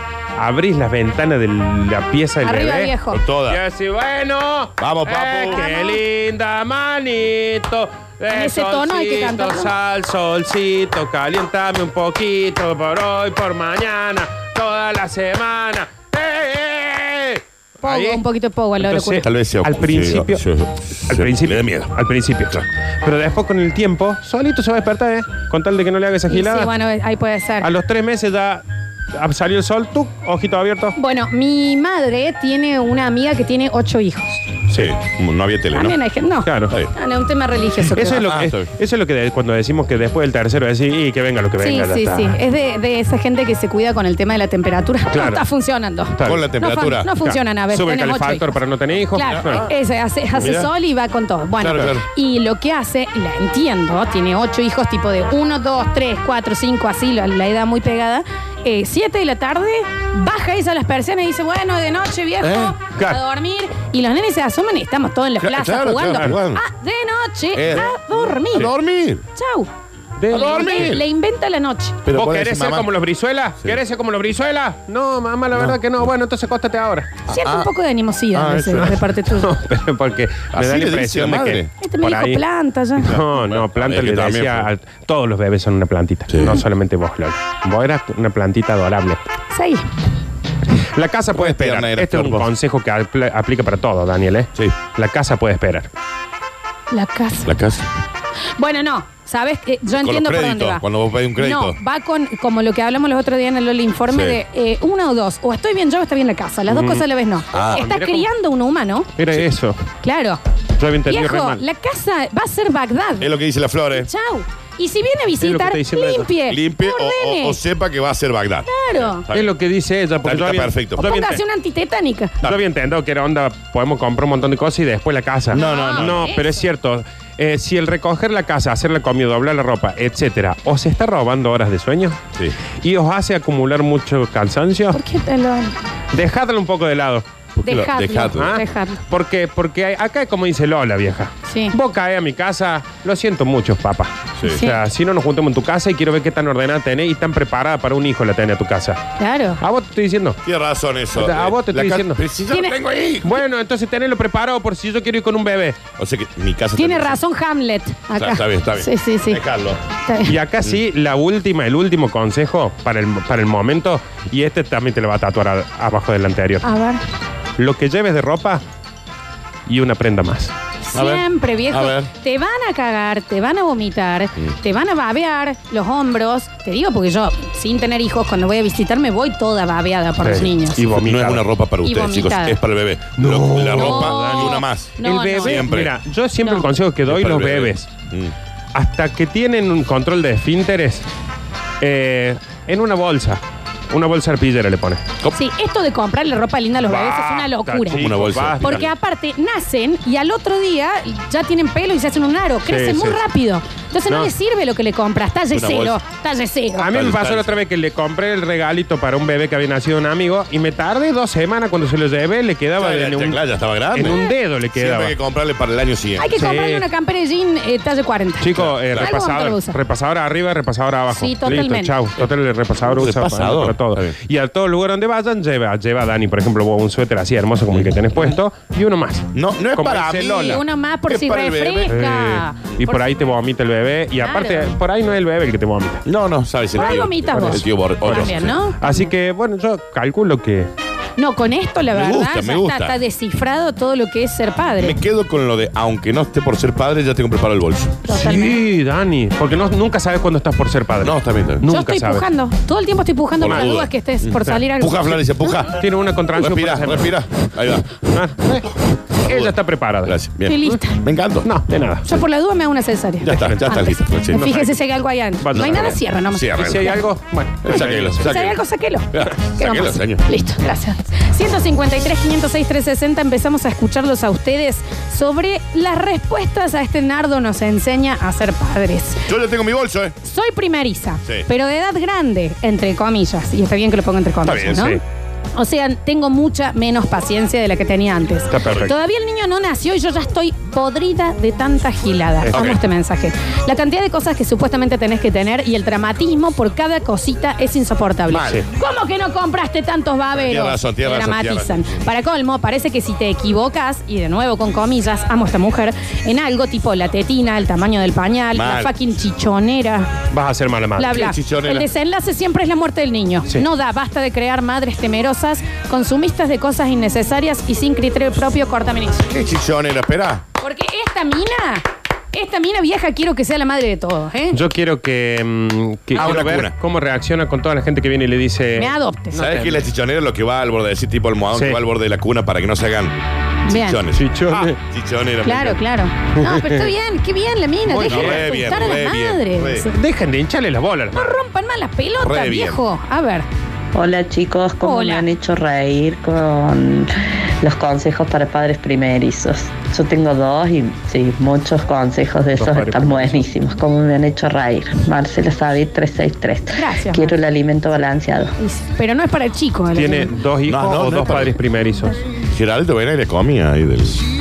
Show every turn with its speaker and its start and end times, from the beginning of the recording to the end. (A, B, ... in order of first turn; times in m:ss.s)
0:00.4-0:02.9 A
0:02.4-0:03.2 B
0:03.1-0:03.6 C
0:03.5-0:18.2 A
0:04.8-0:05.6 C
0:05.5-0:06.0 B
0:08.3-0:09.7 B
0:17.8-0:19.2 B
0:18.8-0:20.4 A
0:19.2-0:21.9 C
0:21.1-0:26.7 A
0:26.3-0:27.7 B
0:27.6-0:30.9 A
0:31.0-0:34.4 B
0:34.7-0:34.9 A
0:34.7-0:36.0 C
0:35.7-0:38.2 B
0:36.4-0:36.8 A
0:37.9-0:42.4 A
0:38.0-0:38.7 C
0:41.6-0:48.6 B
0:45.1-0:45.4 A
0:46.2-0:46.5 A
0:46.2-0:47.1 C
0:47.2-0:49.6 A
0:49.1-1:08.7 B
0:49.2-0:49.7 C
0:50.3-0:50.7 C
0:51.6-0:52.0 C
1:02.4-1:02.7 C
1:05.4-1:06.6 C
1:07.5-1:09.2 C
1:09.3-1:09.7 B
1:10.2-1:11.0 A
1:10.3-1:12.0 B
1:10.3-1:11.0 C
1:12.0-1:12.9 C
1:12.1-1:17.1 A
1:17.3-1:17.7 C
1:17.3-1:19.5 B
1:18.3-1:19.1 C
1:18.8-1:22.4 A
1:20.5-1:21.7 C
1:21.8-1:23.1 B
1:23.0-1:29.2 A
1:23.0-1:24.7 C
1:26.3-1:26.6 C
1:29.5-1:29.8 B
1:30.8-1:35.9 A
1:31.3-1:32.5 C
1:36.9-1:37.5 B
1:37.4-1:37.9 C
1:38.6-1:40.8 B
1:39.9-1:41.8 C
1:41.4-1:49.1 B
1:44.1-1:44.4 C
1:46.7-1:48.3 A
1:47.5-1:47.8 C
1:49.2-1:49.8 A
1:50.0-1:50.4 B
1:50.8-1:51.6 A
1:51.1-1:53.3 B
1:53.2-1:54.1 C
1:53.9-1:57.6 B
1:55.4-1:56.3 A
1:56.5-1:59.5 C
1:58.7-1:59.2 B
1:59.3-2:01.4 A
2:00.2-2:01.1 C
2:01.0-2:02.4 B
2:02.4-2:12.2 A
2:05.5-2:06.3 C
2:05.5-2:06.6 B
2:12.8-2:15.0 A
2:14.9-2:15.7 B
2:16.1-2:17.2 A
2:17.6-2:18.6 C
2:17.6-2:19.0 B
2:18.3-2:29.0 A
2:21.5-2:21.7 B
2:24.5-2:24.8 B
2:29.2-2:29.6 B
2:29.6-2:30.4 A
2:30.4-2:33.4 C
2:31.2-2:32.2 A
2:32.5-2:32.8 B
2:33.2-2:35.8 A
2:36.0-2:37.2 C
2:36.8-2:39.4 B
2:38.1-2:39.8 C
2:40.0-2:40.3 B
2:40.2-2:46.6 A
2:46.6-2:47.0 B
2:47.6-2:48.6 A
2:49.7-2:50.5 A
2:50.8-3:00.8 B
2:50.9-2:52.1 C
3:00.2-3:01.4 A
3:00.9-3:05.9 C
3:01.8-3:02.6 B
3:03.2-3:07.9 A
3:03.7-3:05.6 B
3:07.1-3:08.3 C
3:08.7-3:11.0 A
3:11.8-3:15.0 A
3:15.3-3:18.0 B
3:16.8-3:18.9 A
3:17.9-3:18.9 C
3:18.6-3:26.9 B
3:22.7-3:23.2 A
3:25.5-3:26.0 C
3:26.8-3:33.4 A
3:26.9-3:27.6 C
3:32.7-3:34.2 C
3:33.9-3:35.1 A
3:34.7-3:36.3 C
3:36.2-3:39.8 B
3:36.4-3:36.8 A
3:38.4-3:50.6 A
3:38.5-3:39.1 C
3:41.1-3:41.9 B
3:42.8-3:44.2 C
3:47.7-3:48.3 C
3:49.3-3:52.0 C
3:50.4-3:53.0 B
3:51.9-3:56.0 A
3:54.2-3:54.7 B
3:56.0-3:58.5 C
3:56.8-3:59.1 B
3:56.8-4:00.7 A
4:01.2-4:05.0 B
4:01.9-4:03.0 C
4:04.8-4:08.0 C
4:08.0-4:08.6 B
4:08.1-4:12.3 A
4:11.0-4:11.6 C
4:11.6-4:15.7 B
4:13.4-4:15.7 C
4:13.4-4:13.7 A
4:15.7-4:17.2 A
4:16.4-4:18.0 C
4:18.0-4:20.8 A
4:19.2-4:21.5 C
4:20.4-4:21.0 B
4:21.4-4:22.0 A
4:22.0-4:27.0 B
4:23.2-4:24.5 C
4:23.4-4:23.8 A
4:24.3-4:24.8 A
4:25.4-4:26.0 A
4:25.5-4:27.0 C
4:26.6-4:28.3 A
4:27.6-4:28.6 C
4:28.2-4:39.2 B
4:29.1-4:30.2 C
4:39.3-4:40.2 C
4:40.2-4:45.0 B
4:44.4-4:44.9 C
4:44.7-4:45.0 A
4:45.6-5:10.1 B
4:48.5-4:48.9 A
4:48.6-4:48.9 C
4:52.4-4:52.8 A
4:52.5-4:52.8 C
4:58.3-4:58.6 C
5:00.3-5:01.8 C
5:08.5-5:08.9 C
5:10.3-5:11.2 A
5:11.0-5:19.3 B
5:11.0-5:11.9 C
5:19.3-5:20.4 C
5:20.6-5:24.6 B
5:24.5-5:29.8 A
5:26.1-5:26.7 C
5:28.8-5:29.4 B
5:29.3-5:35.8 C
5:31.5-5:31.8 A
5:33.6-5:34.0 B
5:34.2-5:34.8 A
5:35.4-5:39.9 B
5:36.4-5:36.9 A
5:37.9-5:39.9 C
5:38.0-5:38.8 A
5:39.9-5:41.4 A
5:41.1-5:43.5 B
5:42.2-5:42.8 C
5:43.9-5:58.5 D
5:44.8-5:45.3 B
5:52.6-5:53.3 A
5:56.7-5:57.3 B
5:58.6-6:00.3 B
5:59.9-6:02.1 A
6:00.6-6:01.6 C
6:02.5-6:04.2 C